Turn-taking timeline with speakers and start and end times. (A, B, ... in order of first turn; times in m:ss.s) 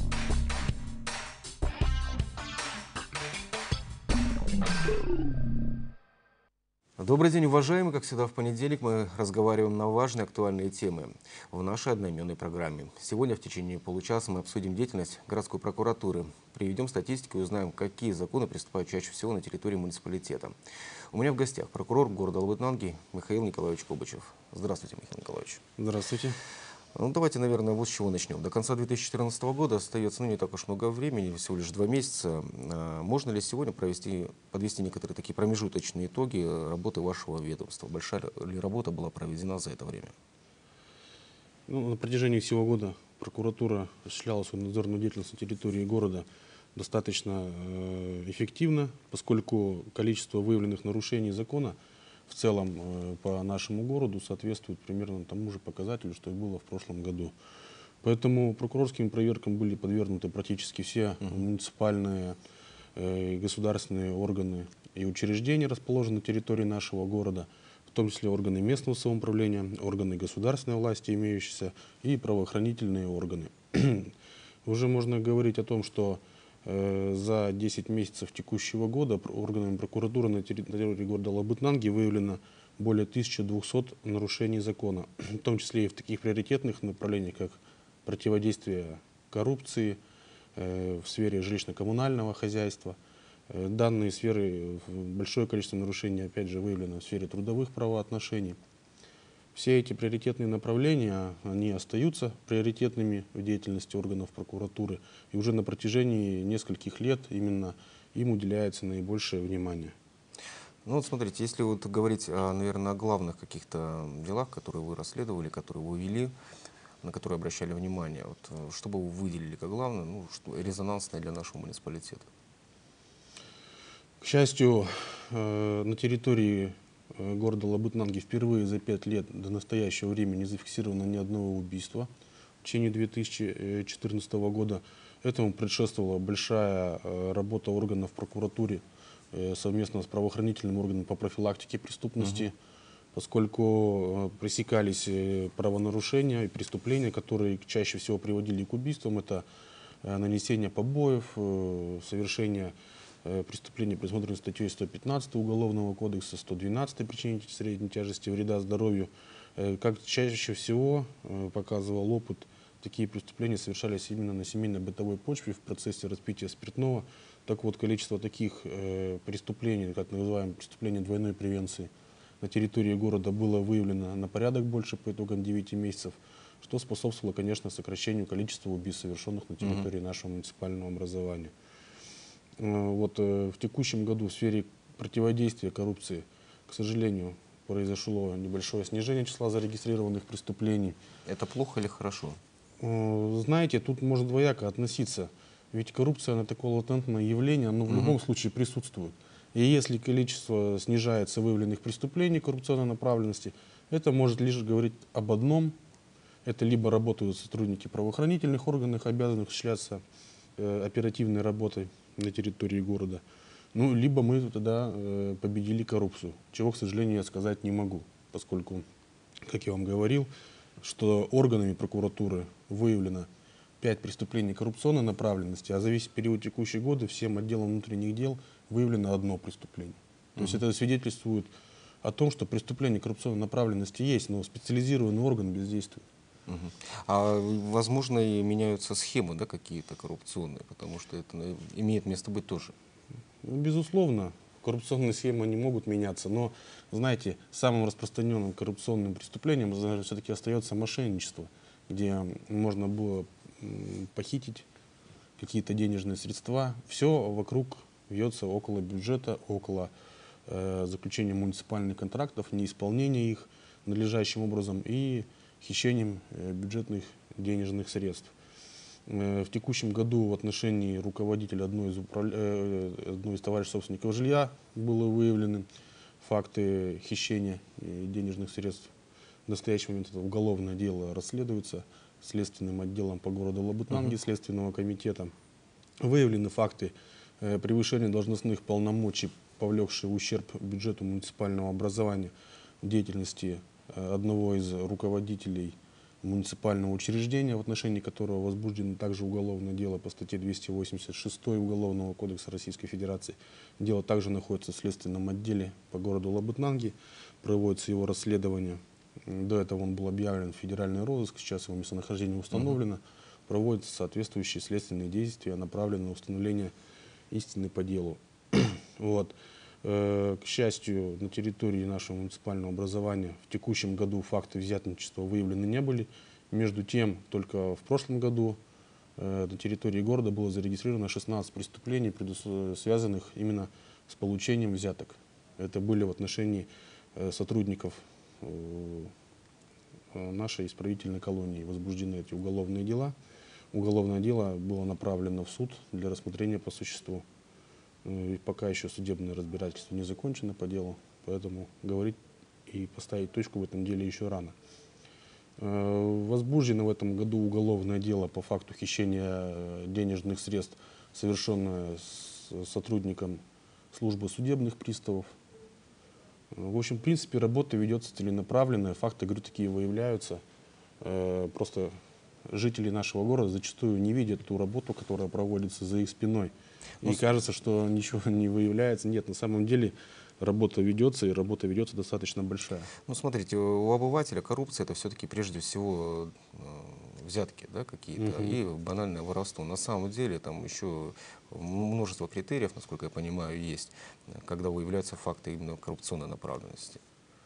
0:07.0-0:20.5 A
0:21.1-0:25.6 A
0:25.8-0:26.4 B
0:26.9-0:40.1 A
0:41.7-0:51.8 B
0:52.3-0:57.3 B
0:58.0-1:02.4 B
1:03.0-1:14.1 B
1:14.6-1:30.0 B
1:30.6-1:33.0 B
1:33.5-1:38.6 B
1:39.6-1:49.9 B
1:50.8-1:56.3 A
1:57.0-2:02.3 A
2:04.2-2:12.1 B
2:12.6-2:22.5 B
2:23.1-2:29.4 B
2:30.0-3:01.5 B
3:02.6-3:11.0 B
3:11.2-3:12.4 A
3:12.8-3:25.8 B
3:17.9-3:18.2 A
3:26.4-3:30.0 B
3:30.6-3:33.2 B
3:33.7-3:38.8 B
3:39.5-3:40.3 B
3:40.8-3:43.3 B
3:43.8-3:51.5 B
3:50.4-3:50.6 A
3:52.0-3:56.1 B
3:56.5-4:02.7 A
4:03.4-4:14.6 B
4:15.4-4:19.9 B
4:20.5-4:28.3 B
4:29.1-4:35.7 B
4:36.2-4:38.9 B
4:39.5-4:45.3 B
4:46.0-5:16.7 B
5:17.3-5:28.6 B
5:29.2-5:39.1 B
5:40.1-5:43.2 B
5:43.7-5:47.2 B
5:48.0-5:54.5 B
5:55.6-6:03.4 B
6:03.9-6:05.3 B
6:06.5-6:10.4 B
6:11.0-6:11.9 B
6:12.5-6:22.9 B
6:23.0-6:37.0 A
6:28.2-6:28.6 B